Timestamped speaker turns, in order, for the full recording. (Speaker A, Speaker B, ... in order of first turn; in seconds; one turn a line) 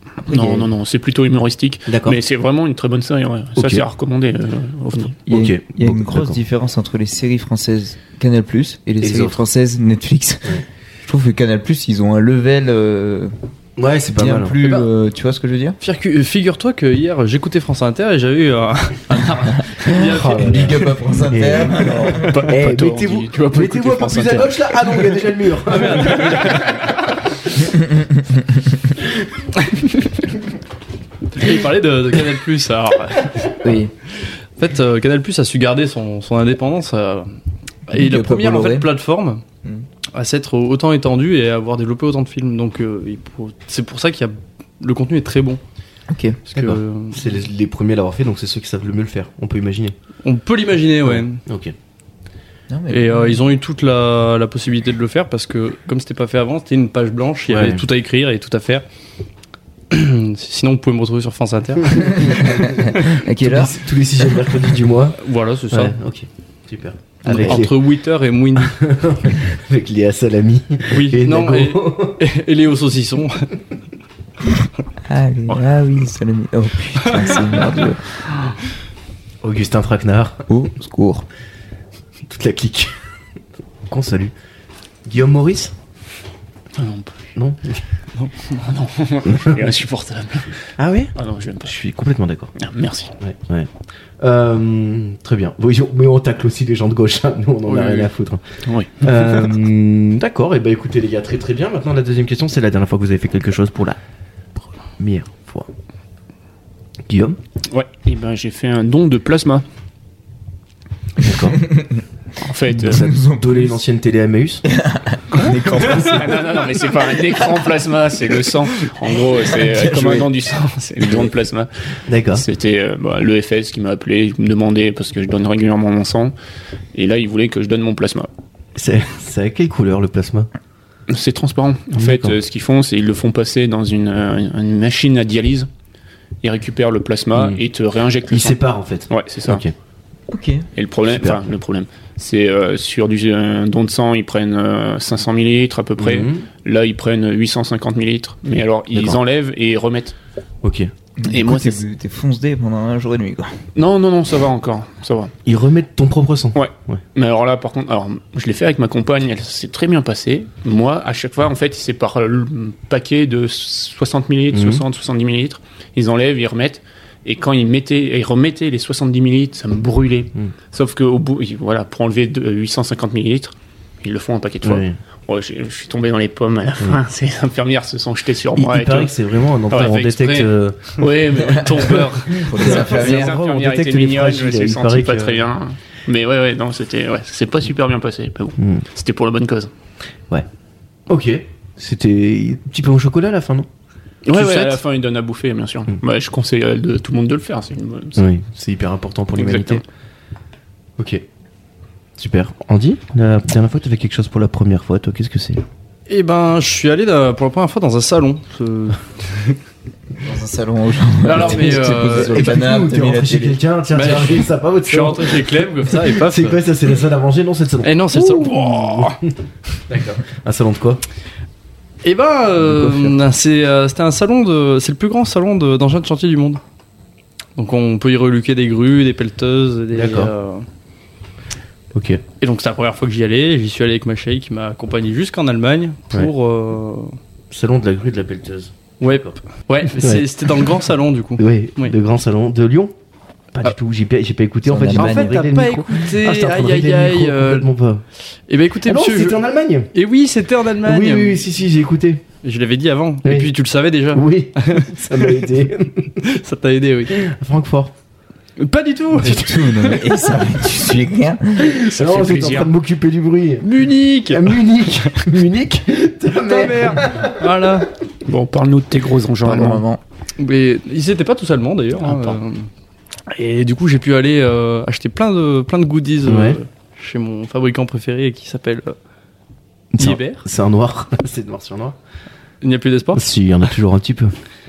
Speaker A: 0.2-5.2
Speaker B: 0.3-0.6
Speaker C: 1.9-2.2
Speaker C: 3.6-3.8
Speaker B: 5.2-13.3
Speaker C: 5.3-6.4
Speaker C: 9.0-9.4
Speaker C: 13.8-14.8
Speaker B: 14.1-15.8
Speaker D: 15.8-20.9
Speaker B: 19.8-22.4
Speaker C: 19.9-26.6
Speaker A: 22.1-24.6
Speaker D: 25.7-26.7
Speaker A: 26.1-26.9
Speaker D: 31.3-37.3
Speaker B: 33.6-33.9
Speaker D: 37.9-39.4
Speaker B: 37.9-38.9
Speaker D: 40.1-45.6
Speaker B: 46.1-46.4
Speaker D: 46.5-47.2
Speaker C: 46.5-49.9
Speaker D: 50.2-51.4
Speaker C: 51.0-51.7
Speaker B: 52.7-53.4
Speaker D: 52.9-58.8
Speaker C: 57.5-57.8
Speaker D: 59.9-62.5
Speaker C: 62.0-65.2
Speaker B: 62.5-63.8
Speaker D: 65.2-66.0
Speaker C: 65.7-67.8
Speaker D: 67.2-68.8
Speaker C: 68.6-72.2
Speaker D: 70.9-73.5
Speaker B: 75.0-78.2
Speaker D: 77.0-77.5
Speaker C: 79.4-80.5
Speaker B: 80.5-81.3
Speaker C: 82.3-83.0
Speaker C: 83.9-84.3
Speaker C: 85.0-85.7
Speaker A: 86.8-87.2
Speaker C: 87.3-87.8
Speaker D: 88.2-88.7
Speaker A: 88.6-90.6
Speaker C: 89.3-89.5
Speaker C: 90.8-92.5
Speaker A: 91.2-91.8
Speaker A: 92.6-93.1
Speaker C: 93.2-98.4
Speaker A: 98.6-99.5
Speaker C: 99.0-104.0
Speaker C: 105.0-105.7
Speaker C: 107.1-107.4
Speaker A: 107.7-109.6
Speaker C: 111.2-111.6
Speaker B: 111.7-112.0
Speaker A: 112.4-113.1
Speaker B: 112.8-113.8
Speaker C: 112.8-114.6
Speaker B: 114.7-116.4
Speaker A: 115.4-121.7
Speaker B: 119.5-120.3
Speaker B: 121.0-121.3
Speaker C: 122.1-122.4
Speaker A: 122.3-126.3
Speaker A: 126.9-128.3
Speaker C: 128.8-130.5
Speaker A: 131.1-135.7
Speaker C: 131.9-132.4
Speaker A: 136.4-138.6
Speaker C: 137.3-137.6
Speaker C: 138.3-139.7
Speaker A: 139.1-139.6
Speaker B: 140.3-140.7
Speaker A: 140.8-150.1
Speaker C: 141.1-141.4
Speaker C: 146.0-146.4
Speaker C: 148.9-149.2
Speaker C: 150.6-150.9
Speaker B: 151.2-153.6
Speaker A: 151.2-151.8
Speaker A: 153.7-155.3
Speaker C: 155.4-157.0
Speaker A: 156.5-179.2
Speaker C: 164.5-164.8
Speaker C: 174.6-175.0
Speaker C: 178.6-181.0
Speaker A: 179.7-179.9
Speaker D: 179.7-183.1
Speaker A: 181.0-182.1
Speaker B: 182.3-183.3
Speaker C: 182.5-185.4
Speaker A: 182.6-189.7
Speaker C: 188.6-188.8
Speaker C: 191.1-193.7
Speaker A: 194.2-198.2
Speaker D: 194.3-194.8
Speaker C: 198.2-199.8
Speaker A: 199.3-199.8
Speaker C: 201.0-201.2
Speaker C: 202.2-205.6
Speaker D: 206.1-209.6
Speaker B: 210.2-213.6
Speaker D: 211.2-212.4
Speaker C: 211.4-219.3
Speaker D: 213.9-216.6
Speaker D: 217.8-219.2
Speaker C: 219.9-221.0
Speaker D: 222.0-226.6
Speaker B: 222.7-223.1
Speaker D: 227.6-230.6
Speaker C: 229.9-230.3
Speaker C: 231.9-232.2
Speaker D: 232.4-237.2
Speaker C: 237.5-239.4
Speaker D: 239.0-241.9
Speaker C: 240.0-240.7
Speaker C: 241.4-242.9
Speaker C: 243.5-248.0
Speaker B: 244.7-245.4
Speaker D: 244.9-247.7
Speaker D: 248.5-249.4
Speaker C: 248.8-249.9
Speaker D: 249.9-251.5
Speaker C: 250.8-252.2
Speaker D: 252.4-255.5
Speaker C: 253.2-253.5
Speaker C: 254.1-256.2
Speaker D: 256.2-257.2
Speaker C: 257.1-257.9
Speaker D: 258.6-260.1
Speaker B: 259.2-261.7
Speaker A: 261.7-262.7
Speaker C: 261.8-263.7
Speaker D: 263.6-265.2
Speaker C: 264.2-267.5
Speaker D: 266.4-267.9
Speaker A: 268.2-269.8
Speaker B: 269.4-270.0
Speaker D: 270.4-272.7
Speaker A: 272.0-272.4
Speaker D: 273.3-278.9
Speaker C: 276.2-276.6
Speaker C: 279.9-282.0
Speaker D: 280.0-280.4
Speaker D: 282.6-283.3
Speaker C: 283.1-284.3